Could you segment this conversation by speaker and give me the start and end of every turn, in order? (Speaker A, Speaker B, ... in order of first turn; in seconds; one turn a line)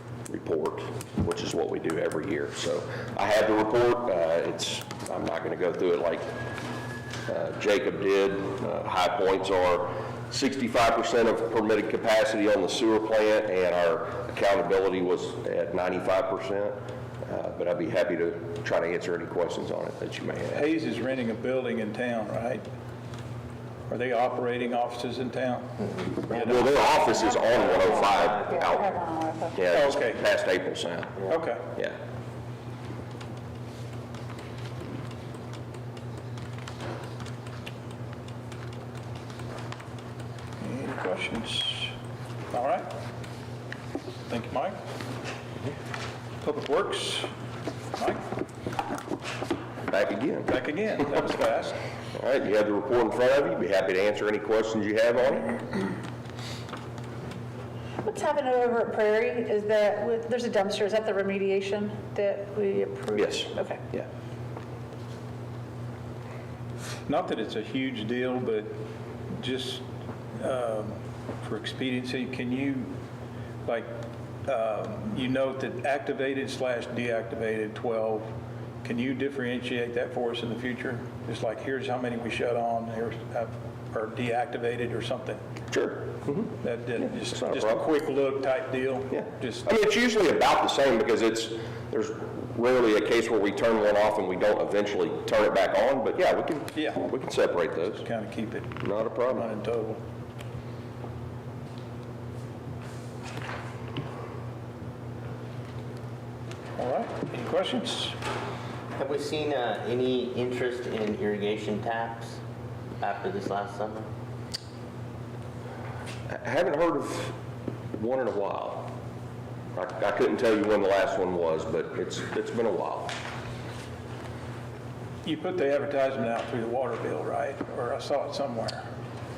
Speaker A: 0.3-6.2
Speaker A: 7.3-20.7
Speaker B: 20.5-22.6
Speaker B: 23.9-25.8
Speaker C: 25.8-26.7
Speaker A: 26.3-28.9
Speaker D: 26.8-29.7
Speaker C: 27.5-28.4
Speaker A: 29.5-32.0
Speaker B: 29.7-30.2
Speaker B: 31.3-31.6
Speaker B: 40.6-41.9
Speaker B: 42.5-42.9
Speaker B: 44.3-44.8
Speaker B: 46.4-47.3
Speaker B: 48.0-48.2
Speaker A: 49.9-51.2
Speaker B: 50.5-51.8
Speaker A: 52.1-55.6
Speaker D: 58.0-63.8
Speaker A: 63.1-64.1
Speaker B: 67.1-68.8
Speaker B: 69.3-69.8
Speaker B: 70.3-72.9
Speaker B: 73.7-73.9
Speaker B: 74.5-78.3
Speaker B: 78.8-85.4
Speaker A: 85.7-87.9
Speaker B: 86.6-89.7
Speaker A: 89.1-98.1
Speaker B: 96.8-97.1
Speaker B: 98.0-100.0
Speaker A: 98.8-99.5
Speaker B: 106.8-108.2
Speaker C: 109.0-112.4
Speaker C: 113.0-114.1
Speaker A: 116.3-117.4
Speaker A: 118.0-118.9
Speaker A: 119.8-123.2
Speaker B: 125.2-128.9